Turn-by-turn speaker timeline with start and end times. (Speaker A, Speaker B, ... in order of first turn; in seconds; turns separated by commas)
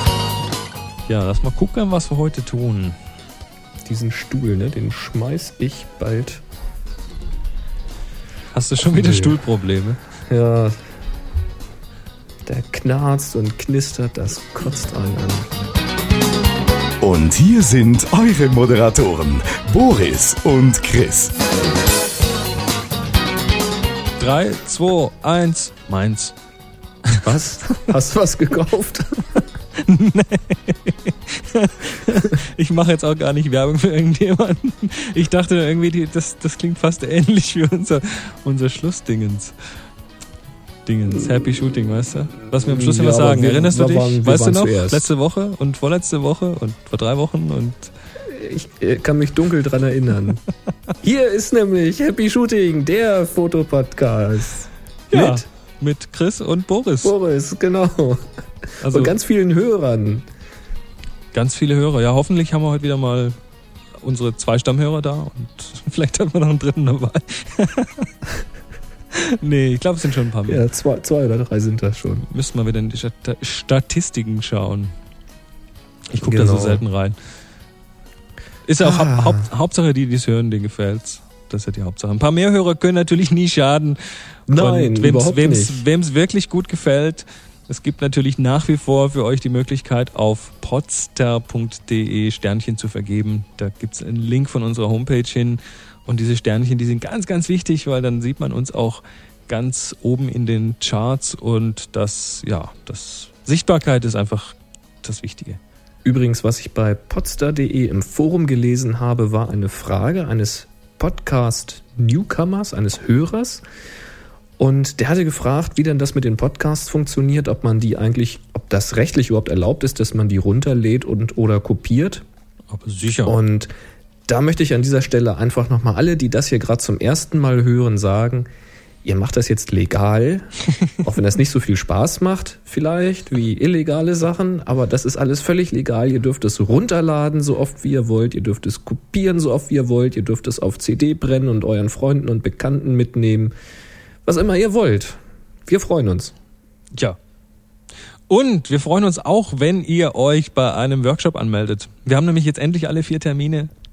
Speaker A: 1.1-3.0, Speaker B: 3.8-6.4, Speaker A: 8.5-10.0, Speaker B: 8.8-9.4, Speaker B: 10.3-10.9, Speaker B: 12.4-15.5, Speaker C: 17.0-21.3, Speaker A: 24.2-26.3, Speaker B: 27.2-29.4, Speaker A: 29.8-39.5, Speaker A: 40.9-47.9, Speaker B: 41.1-41.5, Speaker B: 42.5-45.0, Speaker B: 48.2-50.4, Speaker B: 51.0-55.4, Speaker A: 55.1-57.1, Speaker B: 57.0-58.3, Speaker A: 58.8-59.1, Speaker B: 58.8-60.2, Speaker A: 61.3-63.4, Speaker A: 64.0-68.1, Speaker A: 69.2-70.6, Speaker B: 70.5-72.2, Speaker A: 72.3-74.9, Speaker A: 76.1-77.2, Speaker B: 76.2-76.8, Speaker A: 78.7-84.0, Speaker B: 78.8-79.5, Speaker B: 84.5-85.8, Speaker A: 84.5-105.6, Speaker B: 106.0-113.6, Speaker B: 114.6-122.2, Speaker A: 122.7-123.3, Speaker B: 123.2-123.7, Speaker B: 124.3-128.5, Speaker B: 129.0-143.5, Speaker B: 144.2-146.3, Speaker A: 148.3-153.7